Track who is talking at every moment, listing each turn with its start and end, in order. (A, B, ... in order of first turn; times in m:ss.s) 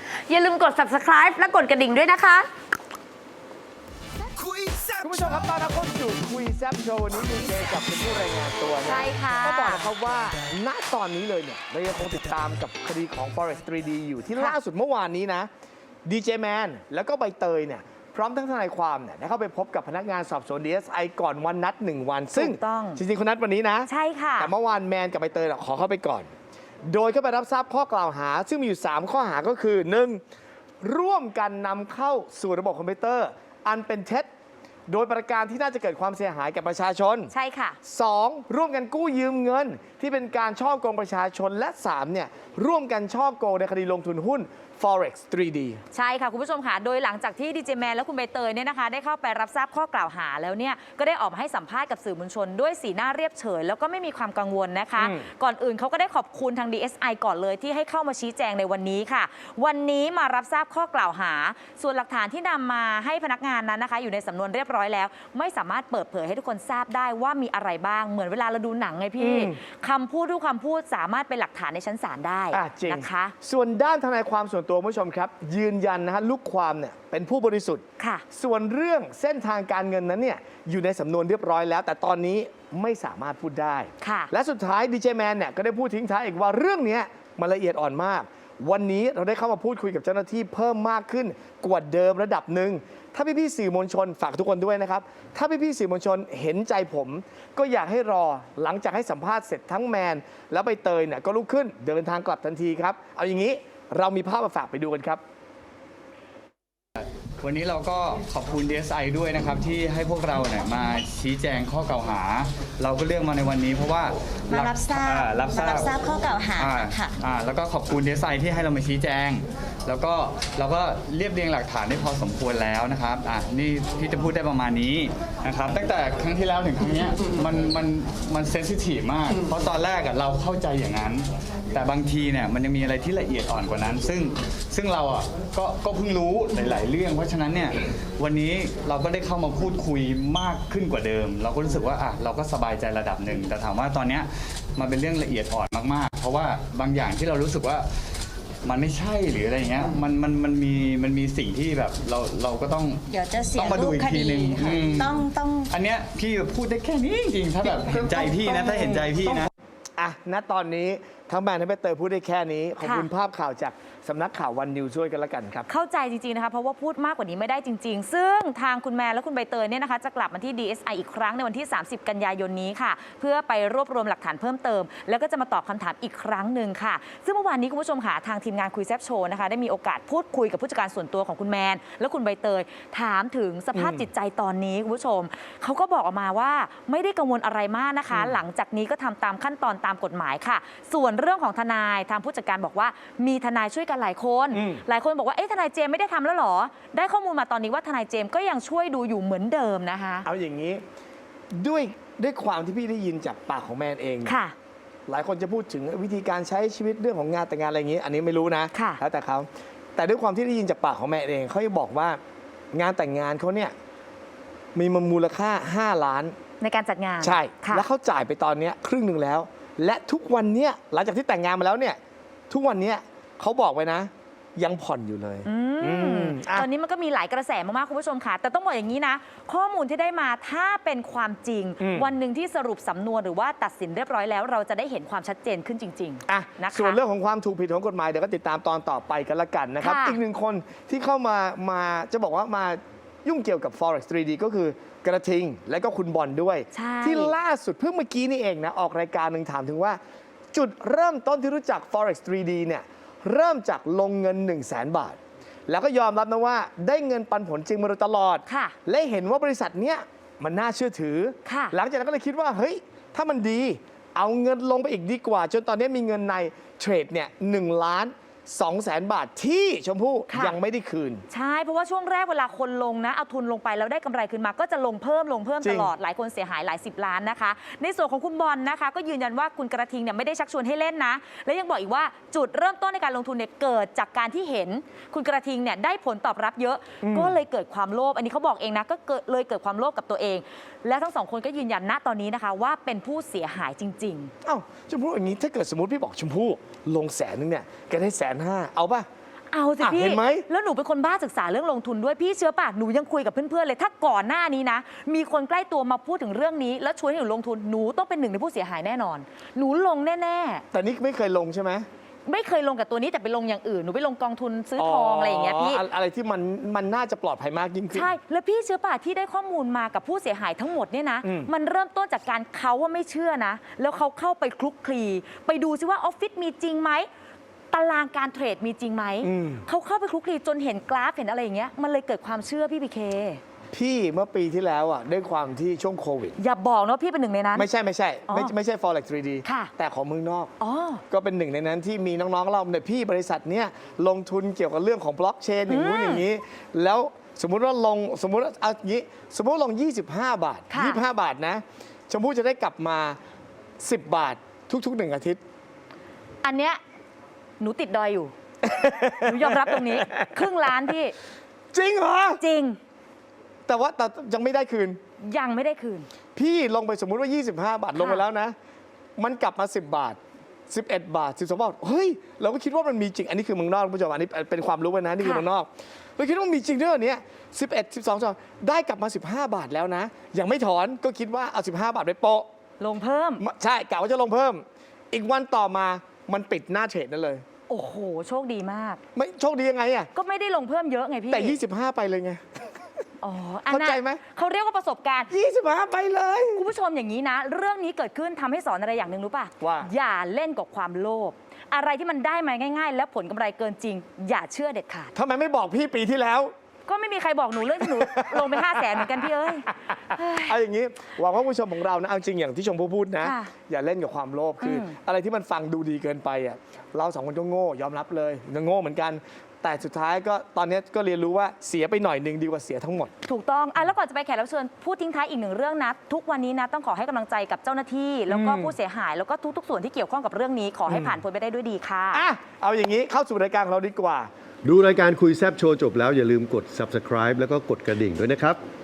0:00.3-0:02.4 A
0:05.0-0:15.5 B
0:08.8-0:09.9 A
0:16.0-0:26.3 B
0:22.3-0:23.0 A
0:23.9-0:24.5 A
0:26.9-0:30.2 B
0:30.8-0:34.3 B
0:34.9-0:37.3 B
0:37.3-0:37.8 A
0:37.8-0:45.8 B
0:45.9-1:13.3 A
0:55.0-0:55.2 B
1:09.2-1:09.6 B
1:12.5-1:45.2 B
1:18.0-1:18.2 A
1:24.0-1:24.3 A
1:47.0-1:56.0 C
1:54.5-1:57.1 D
1:56.6-2:27.9 C
2:28.6-2:39.5 C
2:33.1-2:35.7 D
2:40.0-2:45.7 B
2:42.8-2:43.1 A
2:45.7-3:20.3 A
3:03.7-3:04.1 B
3:08.1-3:08.4 B
3:14.5-3:14.8 B
3:20.2-3:20.8 B
3:21.5-3:24.4 B
3:24.2-3:24.6 A
3:25.1-3:32.2 B
3:28.7-3:29.0 A
3:32.7-3:33.7 B
3:34.8-3:36.4 B
3:36.6-3:37.9 A
3:37.2-3:42.0 B
3:42.5-3:46.7 B
3:45.4-3:57.0 A
3:51.8-3:52.1 B
3:56.3-4:10.0 B
3:59.8-4:00.2 A
4:06.7-4:07.4 A
4:10.5-4:15.2 B
4:15.7-4:31.2 B
4:18.5-4:18.8 A
4:21.5-4:21.8 A
4:30.3-4:30.6 A
4:31.3-4:54.3 A
4:35.6-4:35.9 B
4:47.0-4:47.4 B
4:54.4-4:59.1 B
4:59.5-5:10.6 A
4:59.8-5:00.5 B
5:10.7-5:11.9 B
5:12.2-5:15.8 A
5:14.8-5:18.1 B
5:17.9-5:27.1 A
5:21.2-5:21.5 B
5:27.7-5:33.4 A
5:29.2-5:29.6 B
5:33.7-5:36.4 B
5:36.4-5:37.7 A
5:37.6-5:40.5 B
5:39.4-5:39.7 A
5:40.6-5:41.0 A
5:41.1-5:53.2 B
5:45.7-5:46.2 A
5:50.7-5:51.0 A
5:53.8-5:55.4 B
5:56.4-5:56.8 A
5:57.6-5:58.3 A
5:58.6-6:00.4 B
5:59.2-6:01.2 A
6:01.7-6:02.4 B
6:02.4-6:02.8 A
6:03.7-6:05.0 B
6:05.2-6:06.1 A
6:06.4-6:08.6 B
6:08.0-6:08.2 A
6:09.2-6:22.5 B
6:15.2-6:15.4 A
6:22.8-6:23.4 A
6:23.4-6:27.4 B
6:27.7-6:29.0 A
6:29.1-6:30.1 B
6:30.2-6:31.6 A
6:31.3-6:32.7 B
6:33.2-6:35.3 A
6:33.7-6:34.2 B
6:35.3-6:36.6 B
6:36.6-6:45.1 A
6:39.6-6:39.9 B
6:45.2-6:46.5 B
6:46.9-6:50.6 A
6:47.8-7:03.1 B
6:53.2-6:53.5 A
6:54.6-6:54.9 A
7:03.2-7:12.2 A
7:08.3-7:08.8 B
7:10.9-7:11.2 B
7:12.1-7:14.3 B
7:14.6-7:18.6 E